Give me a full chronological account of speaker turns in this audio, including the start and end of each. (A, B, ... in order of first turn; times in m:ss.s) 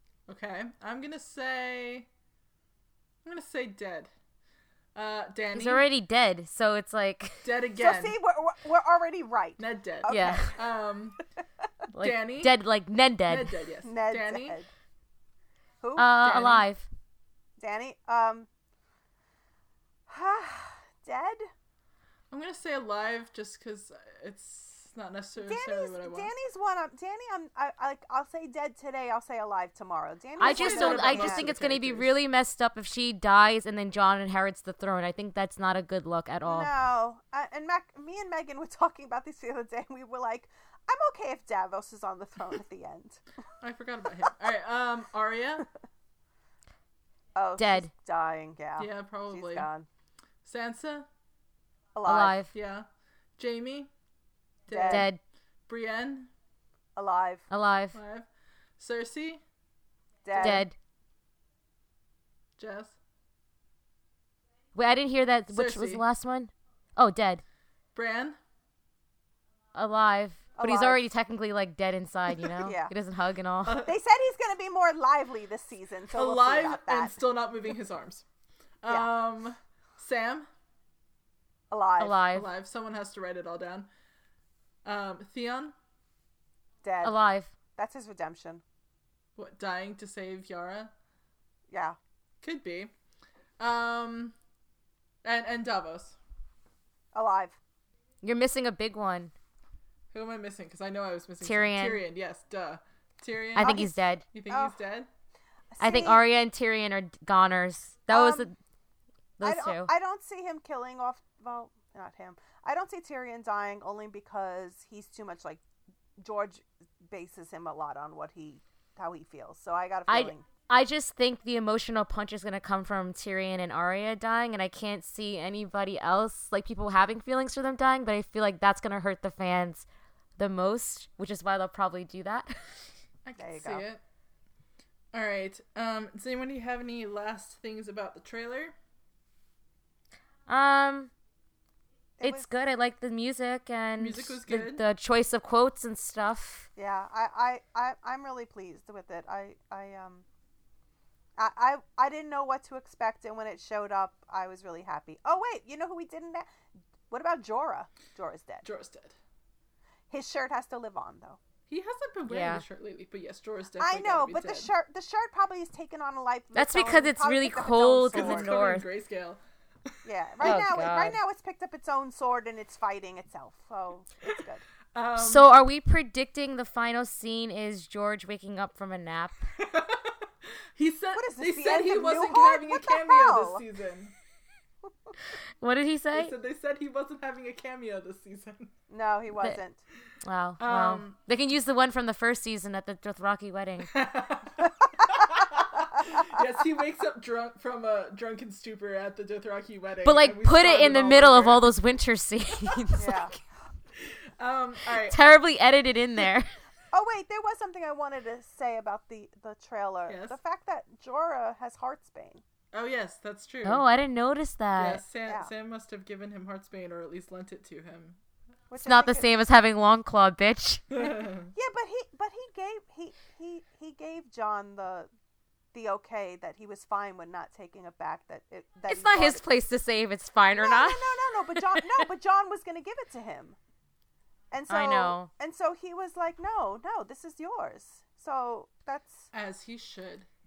0:00.3-0:02.1 A
0:03.2-0:04.1 A
0:04.9-0:05.9 A
0:05.5-0:07.5 B
0:07.4-0:08.2 A
0:07.8-0:10.6 C
0:09.6-0:11.2 A
0:10.1-0:10.5 B
0:11.9-0:13.5 B
0:12.0-0:12.6 A
0:13.3-0:14.6 A
0:13.8-0:14.7 C
0:15.8-0:16.2 C
0:16.0-0:16.9 B
0:16.2-0:16.7 A
0:17.6-0:18.5 C
0:20.1-0:21.5 C
0:22.3-0:26.3 A
0:25.4-0:31.5 C
0:30.4-0:36.7 B
0:30.4-0:32.2 A
0:36.4-0:43.2 C
0:43.6-0:45.7 A
0:47.4-0:49.9 C
0:47.6-0:47.9 B
0:48.8-0:49.7 A
0:50.4-0:51.1 A
0:51.9-0:52.4 C
0:52.0-0:52.5 B
0:52.5-0:53.9 A
0:54.7-0:55.1 A
0:54.7-0:55.0 C
0:54.9-0:55.2 B
0:55.7-0:56.3 A
0:57.0-0:57.5 C
0:57.5-0:58.0 B
0:57.9-0:58.3 A
0:58.8-0:59.4 A
1:00.2-1:00.6 C
1:00.3-1:00.6 A
1:00.4-1:00.7 B
1:02.6-1:03.0 A
1:04.7-1:07.4 B
1:05.5-1:06.0 A
1:07.9-1:08.4 A
1:09.7-1:13.8 B
1:10.6-1:11.1 C
1:12.6-1:12.9 C
1:13.6-1:13.9 A
1:13.8-1:17.2 C
1:16.1-1:18.2 A
1:18.8-1:20.5 A
1:21.7-1:22.2 C
1:22.0-1:22.5 B
1:22.3-1:23.9 A
1:24.8-1:25.7 A
1:26.8-1:27.2 C
1:27.0-1:27.5 B
1:27.8-1:28.6 C
1:29.4-1:30.9 A
1:31.7-1:32.0 C
1:32.4-1:32.9 A
1:33.6-1:34.3 A
1:35.2-1:36.2 A
1:37.1-1:37.6 C
1:38.2-1:39.3 B
1:40.1-1:45.1 A
1:41.4-1:42.0 B
1:43.5-1:44.2 B
1:43.6-1:43.9 C
1:44.5-1:44.8 C
1:45.7-1:46.2 C
1:45.8-1:48.5 B
1:48.1-1:48.5 C
1:49.4-1:49.9 B
1:49.4-1:55.6 C
1:56.2-2:00.4 C
2:00.1-2:09.8 B
2:10.4-2:12.8 B
2:13.2-2:14.0 A
2:13.4-2:13.8 C
2:15.1-2:18.7 A
2:20.5-2:21.1 B
2:22.2-2:22.5 C
2:22.2-2:26.7 B
2:24.0-2:24.8 A
2:26.8-2:30.2 C
2:31.4-2:36.5 C
2:37.1-2:38.6 C
2:38.6-2:39.2 A
2:40.1-2:41.4 C
2:41.7-2:44.7 A
2:42.3-2:42.6 B
2:43.8-2:48.5 C
2:46.5-2:48.9 B
2:48.1-2:49.4 A
2:50.0-2:54.6 C
2:50.4-2:50.7 A
2:50.4-2:51.2 B
2:54.9-2:55.5 A
2:55.2-2:59.5 B
2:59.6-3:00.1 A
3:00.7-3:04.1 A
3:01.1-3:03.6 C
3:05.6-3:06.3 B
3:06.1-3:08.7 A
3:08.9-3:09.8 C
3:10.2-3:13.9 B
3:10.6-3:11.2 A
3:13.9-3:21.6 A
3:20.0-3:23.3 B
3:23.0-3:23.3 C
3:24.1-3:25.2 A
3:25.1-3:26.5 B
3:26.9-3:32.4 C
3:30.1-3:30.4 A
3:32.7-3:33.8 A
3:33.6-3:35.0 B
3:34.8-3:38.2 A
3:35.2-3:35.5 C
3:38.7-3:39.4 C
3:38.8-3:40.9 B
3:41.0-3:41.5 A
3:41.5-3:45.1 C
3:45.7-3:49.4 C
3:48.9-3:51.9 B
3:50.5-3:53.6 C
3:54.5-3:59.3 C
3:54.7-3:55.3 B
3:59.3-4:00.3 A